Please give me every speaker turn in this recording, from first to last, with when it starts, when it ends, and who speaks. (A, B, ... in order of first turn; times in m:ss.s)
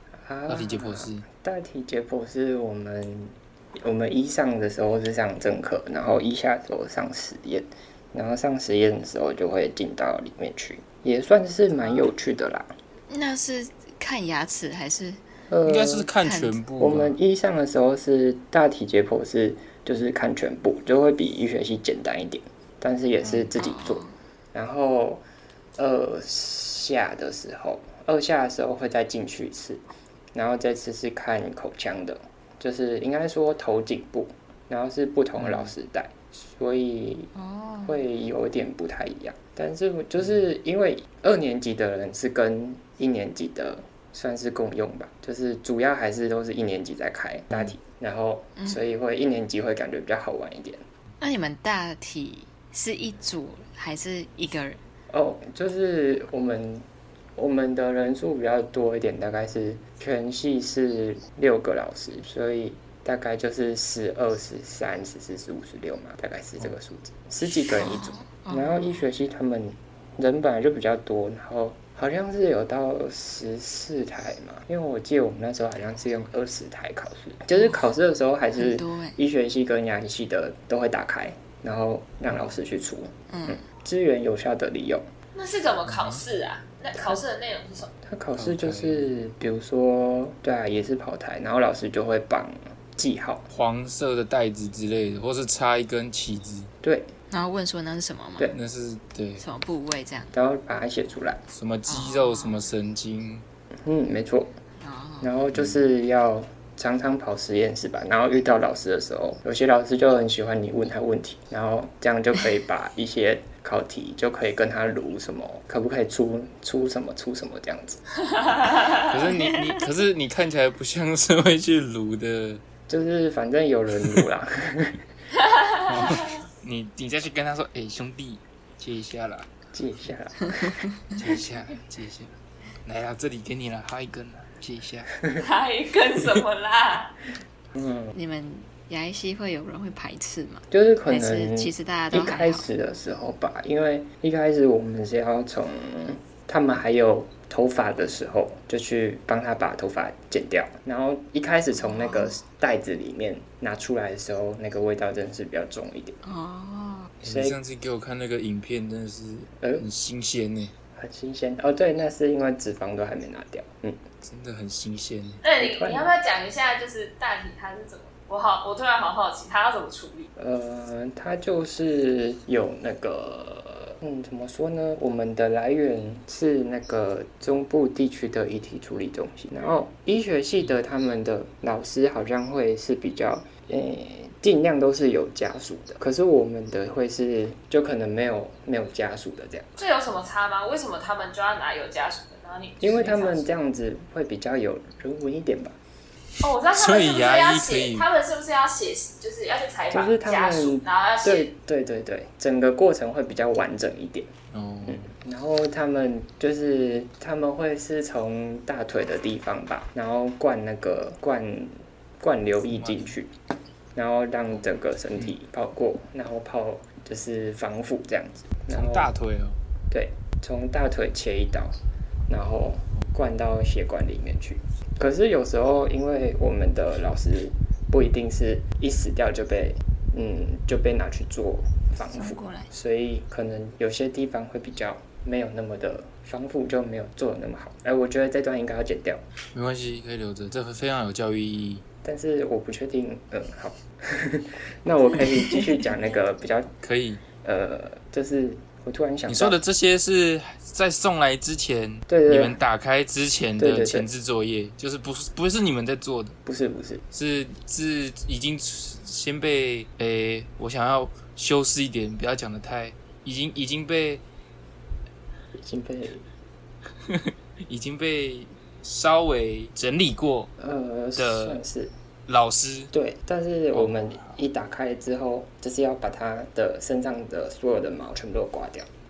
0:00.2-0:12.7 A
0:00.5-0:01.3 B
0:13.1-0:15.2 C
0:15.5-0:16.1 A
0:15.7-0:17.2 B
0:16.2-0:16.6 C
0:16.8-0:25.2 A
0:23.2-0:23.5 B
0:23.6-0:24.1 C
0:25.8-0:37.3 A
0:35.4-0:35.7 B
0:37.4-0:38.0 C
0:37.8-0:50.8 A
0:51.2-0:54.8 C
0:55.1-0:56.8 A
0:57.4-1:25.0 A
1:07.8-1:09.0 C
1:18.6-1:19.2 C
1:23.3-1:23.6 C
1:25.4-1:27.9 D
1:25.9-1:26.2 B
1:26.9-1:27.2 A
1:28.0-1:33.5 A
1:28.4-1:29.1 B
1:33.5-1:36.7 B
1:36.8-1:37.1 A
1:37.3-1:38.5 C
1:38.5-1:39.4 B
1:39.4-1:40.4 C
1:40.3-1:41.4 A
1:41.5-1:43.4 B
1:41.9-1:42.7 C
1:43.9-1:44.6 A
1:44.8-1:45.3 C
1:45.2-1:58.0 A
1:45.5-1:45.8 B
1:58.9-2:02.6 B
2:02.9-2:05.0 A
2:05.8-2:09.5 B
2:09.7-2:10.9 A
2:11.1-2:15.1 B
2:15.4-2:17.2 D
2:17.7-2:18.2 A
2:18.1-2:22.7 C
2:20.7-2:36.2 A
2:31.8-2:32.3 C
2:36.2-2:37.1 C
2:37.2-2:40.7 B
2:37.2-2:37.6 A
2:39.6-2:39.9 A
2:41.0-2:44.0 A
2:44.2-2:45.4 B
2:45.4-2:50.3 D
2:45.6-2:46.1 A
2:50.4-3:09.8 A
3:09.8-3:13.5 D
3:12.8-3:15.8 A
3:16.4-3:21.5 D
3:16.7-3:18.1 B
3:19.9-3:24.3 A
3:24.5-3:25.0 B
3:24.8-3:33.3 A
3:32.7-3:33.2 B
3:34.0-3:39.2 A
3:34.5-3:35.3 B
3:38.7-3:39.6 B
3:39.9-3:41.8 A
3:42.3-3:59.2 A
3:52.1-3:52.7 C
3:59.5-4:01.8 B
4:02.0-4:06.7 A
4:06.8-4:07.2 B
4:07.4-4:09.6 A
4:09.3-4:16.4 B
4:12.1-4:12.6 A
4:13.6-4:14.1 A
4:16.5-4:17.0 A
4:17.1-4:24.2 B
4:25.6-4:26.2 A
4:27.1-4:30.5 B
4:30.6-4:31.9 A
4:31.2-4:31.6 B
4:32.3-4:32.9 B
4:32.9-4:38.9 A
4:33.7-4:34.4 B